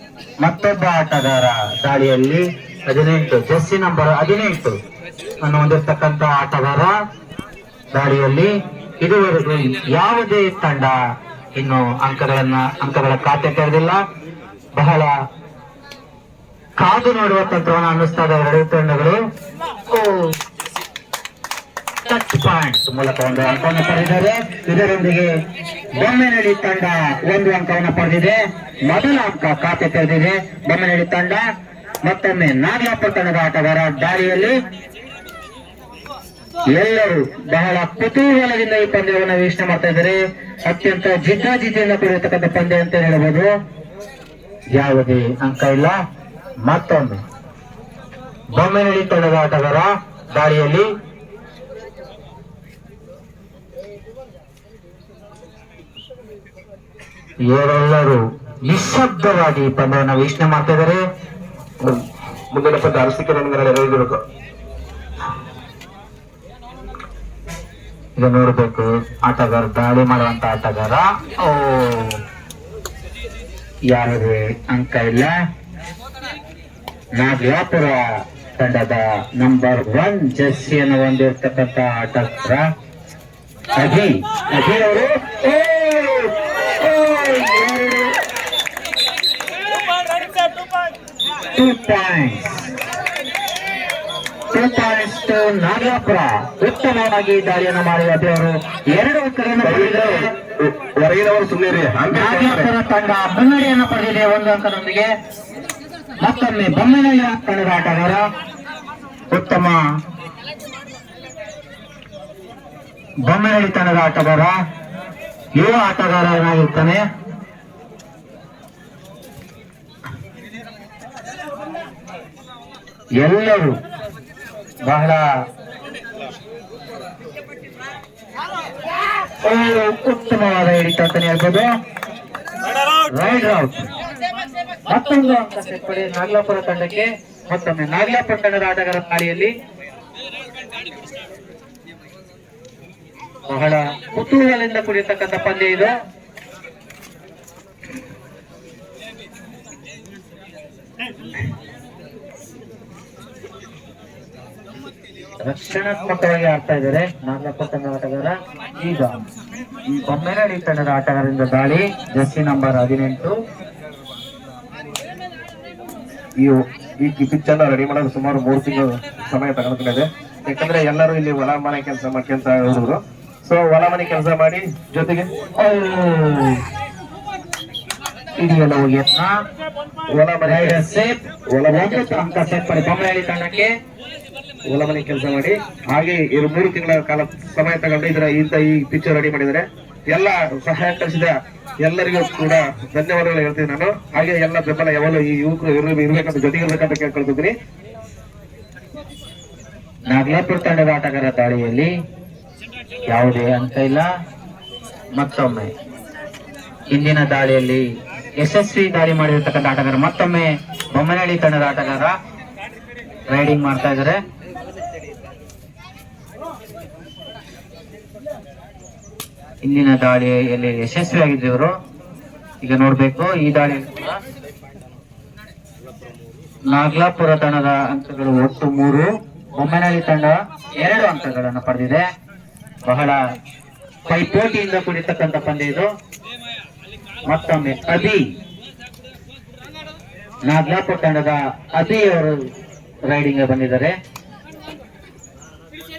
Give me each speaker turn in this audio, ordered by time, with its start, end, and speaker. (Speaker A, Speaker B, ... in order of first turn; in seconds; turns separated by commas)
Speaker A: 0.4-4.8, Speaker A: 5.4-6.9, Speaker A: 7.9-8.5, Speaker A: 9.0-10.9, Speaker A: 11.6-14.0, Speaker A: 14.7-15.1, Speaker A: 16.8-19.2, Speaker A: 19.9-20.3, Speaker A: 22.1-25.3, Speaker A: 26.0-28.3, Speaker A: 28.9-31.4, Speaker A: 32.0-34.5, Speaker A: 36.7-43.5, Speaker A: 44.7-45.9, Speaker A: 46.6-47.2, Speaker A: 48.5-50.9, Speaker A: 57.5-61.0, Speaker B: 62.5-64.2, Speaker A: 68.2-72.2, Speaker A: 73.9-75.3, Speaker A: 77.2-78.0, Speaker A: 78.6-82.7, Speaker A: 83.8-88.2, Speaker A: 91.5-92.7, Speaker A: 94.5-100.3, Speaker B: 99.6-102.7, Speaker A: 102.1-105.0, Speaker A: 106.2-108.2, Speaker A: 109.3-109.8, Speaker A: 113.3-114.5, Speaker A: 115.6-117.0, Speaker A: 123.2-123.7, Speaker A: 124.9-125.2, Speaker A: 129.4-131.7, Speaker A: 133.1-133.9, Speaker A: 134.9-139.5, Speaker A: 143.5-145.9, Speaker A: 155.4-159.2, Speaker A: 159.9-163.3, Speaker B: 166.4-175.3, Speaker A: 175.6-176.6, Speaker A: 178.4-179.3, Speaker B: 180.1-180.8, Speaker A: 180.4-183.7, Speaker B: 181.5-182.3, Speaker B: 184.7-197.5, Speaker A: 200.1-201.9, Speaker A: 203.1-204.1, Speaker A: 205.2-205.7, Speaker A: 206.9-207.8, Speaker A: 208.4-212.1, Speaker A: 213.3-214.2, Speaker A: 219.6-221.7, Speaker A: 222.6-224.1, Speaker A: 226.7-232.0, Speaker A: 232.9-233.2, Speaker A: 234.1-235.9, Speaker A: 237.3-238.2, Speaker A: 240.5-242.3, Speaker A: 243.1-243.9